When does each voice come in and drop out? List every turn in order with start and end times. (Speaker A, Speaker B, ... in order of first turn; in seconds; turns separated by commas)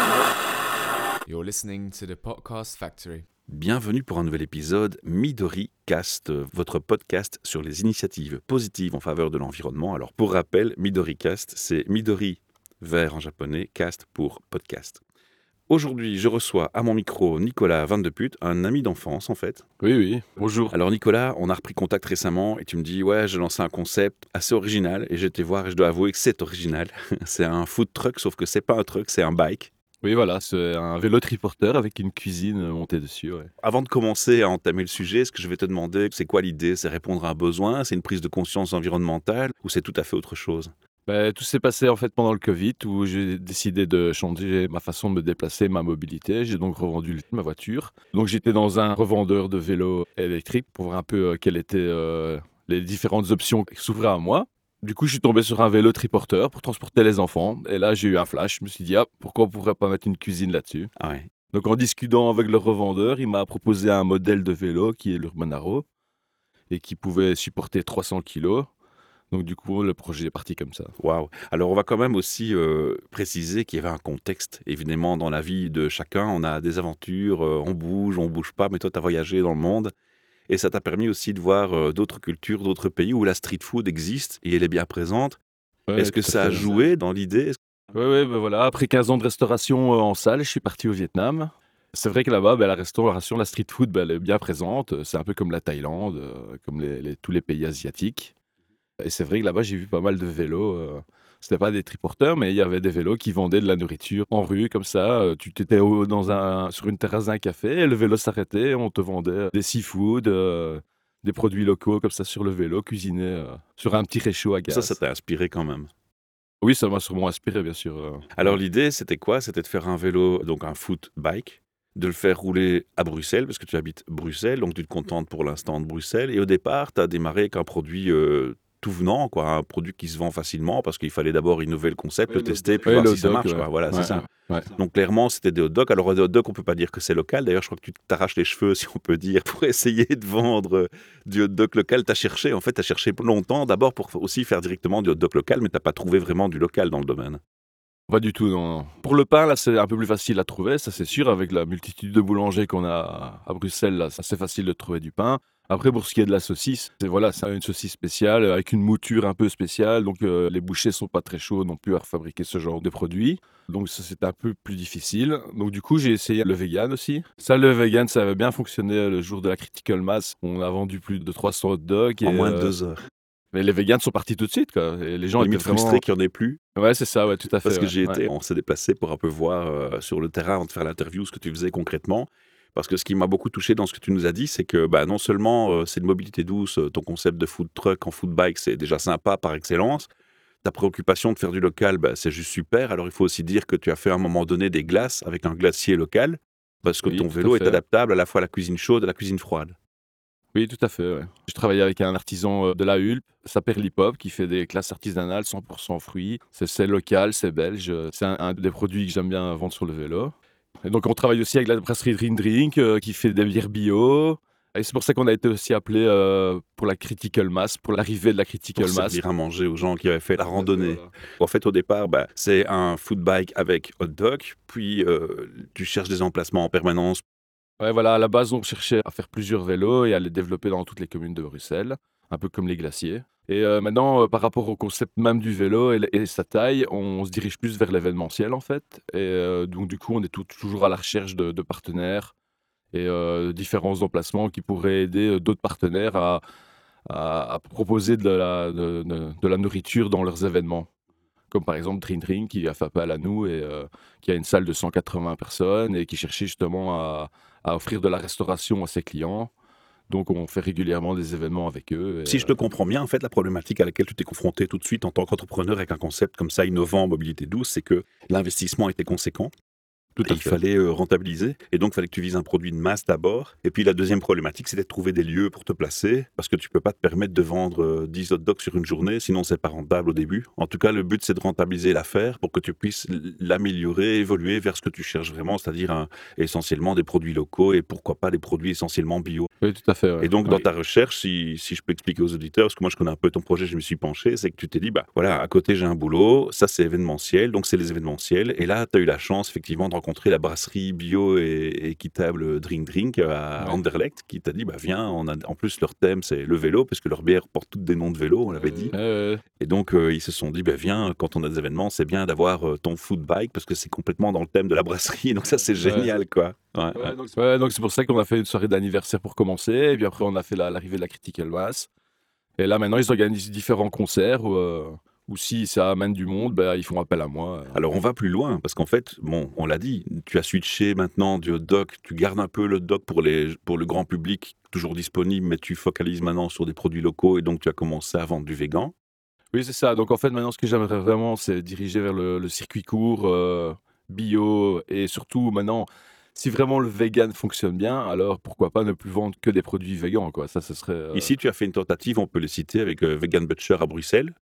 Speaker A: 1.3-3.3, Speaker B: 3.5-15.0, Speaker B: 15.7-19.6, Speaker C: 19.8-20.7, Speaker B: 20.7-29.7, Speaker C: 30.0-33.5, Speaker B: 33.6-40.7, Speaker C: 41.1-60.9, Speaker B: 61.0-61.3, Speaker C: 61.5-65.8, Speaker C: 66.7-68.7, Speaker C: 69.3-70.9, Speaker B: 71.0-79.9, Speaker B: 80.5-85.4, Speaker C: 85.9-86.7, Speaker B: 86.0-87.6, Speaker C: 87.9-98.3, Speaker C: 99.0-115.0, Speaker B: 114.7-115.9, Speaker C: 116.6-118.5, Speaker B: 118.4-147.4, Speaker C: 132.8-134.7, Speaker C: 148.1-172.7, Speaker B: 172.2-173.0, Speaker C: 173.5-176.0, Speaker B: 175.4-176.6, Speaker C: 176.8-178.2, Speaker B: 177.6-190.1, Speaker B: 190.6-199.8, Speaker C: 197.0-197.8, Speaker C: 200.5-219.2, Speaker B: 218.8-227.2, Speaker C: 220.5-221.1, Speaker C: 227.8-242.3, Speaker C: 242.9-246.4, Speaker C: 247.1-250.9, Speaker C: 251.5-259.5, Speaker C: 260.1-262.6, Speaker B: 262.3-269.5, Speaker C: 270.2-270.6, Speaker B: 270.2-289.5, Speaker C: 289.6-290.6, Speaker B: 290.2-308.9, Speaker C: 308.5-309.4, Speaker B: 309.6-317.2, Speaker C: 315.8-316.1, Speaker C: 316.9-321.9, Speaker C: 322.6-327.8, Speaker B: 327.7-338.9, Speaker C: 339.5-351.3, Speaker B: 351.1-354.3